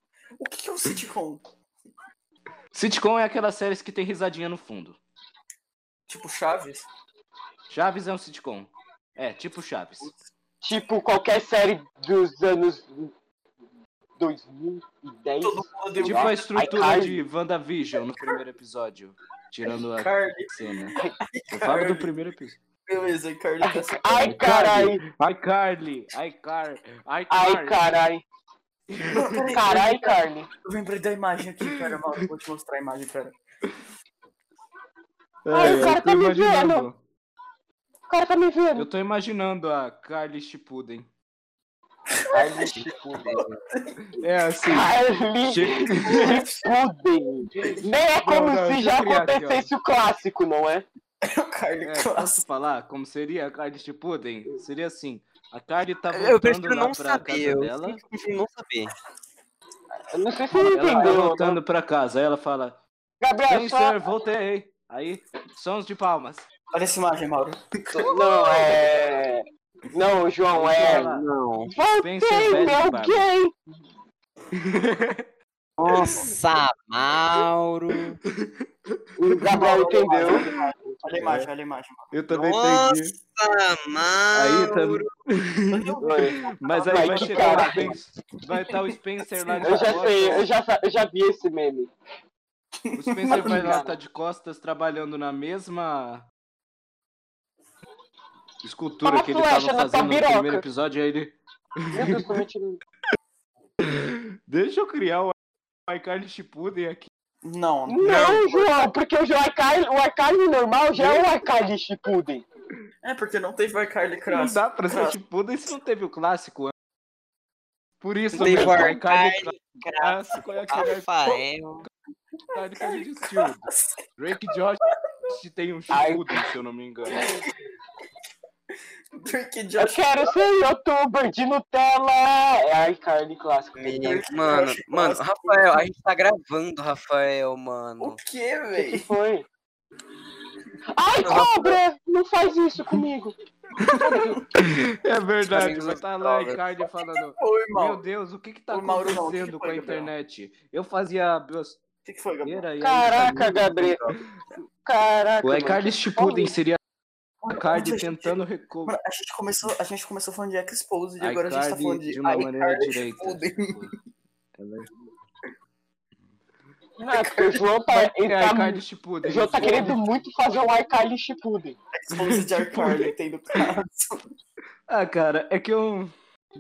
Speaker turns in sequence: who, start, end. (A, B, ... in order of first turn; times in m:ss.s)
0:00.4-0:01.4 A
0:02.7-0:05.0 B
0:06.1-0:06.9 A
0:07.7-0:10.1 B
0:10.6-0:13.1 C
0:14.2-0:17.2 C
0:15.4-0:17.0 A
0:16.0-0:21.0 B
0:19.7-0:22.1 A
0:21.5-0:22.6 B
0:22.8-0:24.5 A
0:23.6-0:25.0 C
0:24.2-0:27.8 B
0:27.3-0:28.2 C
0:28.9-0:29.6 B
0:29.0-0:33.4 A
0:29.5-0:30.5 C
0:35.4-0:37.0 B
0:35.5-0:36.9 C
0:38.1-0:38.9 C
0:38.8-0:41.1 B
0:42.1-0:42.8 A
0:42.3-0:43.4 C
0:43.2-0:43.6 D
0:43.3-0:44.2 A
0:44.1-0:46.4 B
0:44.7-0:50.9 C
0:45.9-0:46.7 A
0:47.6-0:47.9 A
0:48.2-0:49.7 B
0:51.2-0:52.4 A
0:51.8-0:58.0 B
0:56.1-0:58.9 D
1:00.1-1:01.6 C
1:00.5-1:02.8 B
1:03.2-1:04.0 C
1:03.5-1:06.5 B
1:06.7-1:08.3 A
1:08.0-1:11.1 C
1:10.5-1:11.2 B
1:10.8-1:11.7 D
1:11.6-1:13.5 C
1:12.0-1:13.3 B
1:14.5-1:15.3 B
1:15.8-1:18.2 D
1:15.8-1:16.3 B
1:16.0-1:16.3 A
1:18.4-1:19.6 B
1:19.2-1:20.6 C
1:19.5-1:22.1 A
1:21.1-1:21.5 B
1:22.1-1:23.2 B
1:22.3-1:25.1 D
1:24.3-1:30.5 B
1:25.7-1:28.0 A
1:26.0-1:28.0 C
1:28.6-1:30.4 A
1:29.6-1:31.9 C
1:32.8-1:33.8 A
1:32.9-1:36.3 B
1:33.3-1:34.0 C
1:38.6-1:42.3 B
1:39.0-1:40.6 C
1:41.9-1:42.8 C
1:43.8-1:45.4 B
1:45.9-1:47.1 B
1:47.4-1:48.9 A
1:47.9-1:52.4 C
1:53.0-1:55.2 A
1:54.3-1:56.7 B
1:58.0-2:01.9 B
1:58.3-2:01.9 D
2:02.5-2:07.3 B
2:02.8-2:04.9 A
2:05.9-2:06.4 C
2:07.1-2:07.4 A
2:09.2-2:10.4 A
2:09.8-2:14.0 C
2:13.8-2:18.2 D
2:13.8-2:15.9 A
2:18.0-2:19.1 A
2:18.7-2:19.4 C
2:20.9-2:23.4 C
2:21.2-2:21.8 D
2:23.8-2:31.8 B
2:23.8-2:24.4 A
2:23.9-2:24.4 C
2:25.4-2:26.6 D
2:27.1-2:28.1 A
2:28.7-2:30.1 A
2:32.0-2:32.7 A
2:32.4-2:33.8 B
2:32.8-2:34.0 C
2:33.7-2:34.1 D
2:34.8-2:36.5 C
2:35.4-2:36.8 B
2:37.4-2:43.9 A
2:37.5-2:38.9 B
2:41.2-2:43.9 B
2:44.6-2:44.9 B
2:47.0-2:51.8 C
2:47.1-2:47.6 A
2:47.9-2:50.2 B
2:49.6-2:49.9 A
2:51.9-2:54.2 A
2:52.1-2:53.7 B
2:54.9-2:56.1 B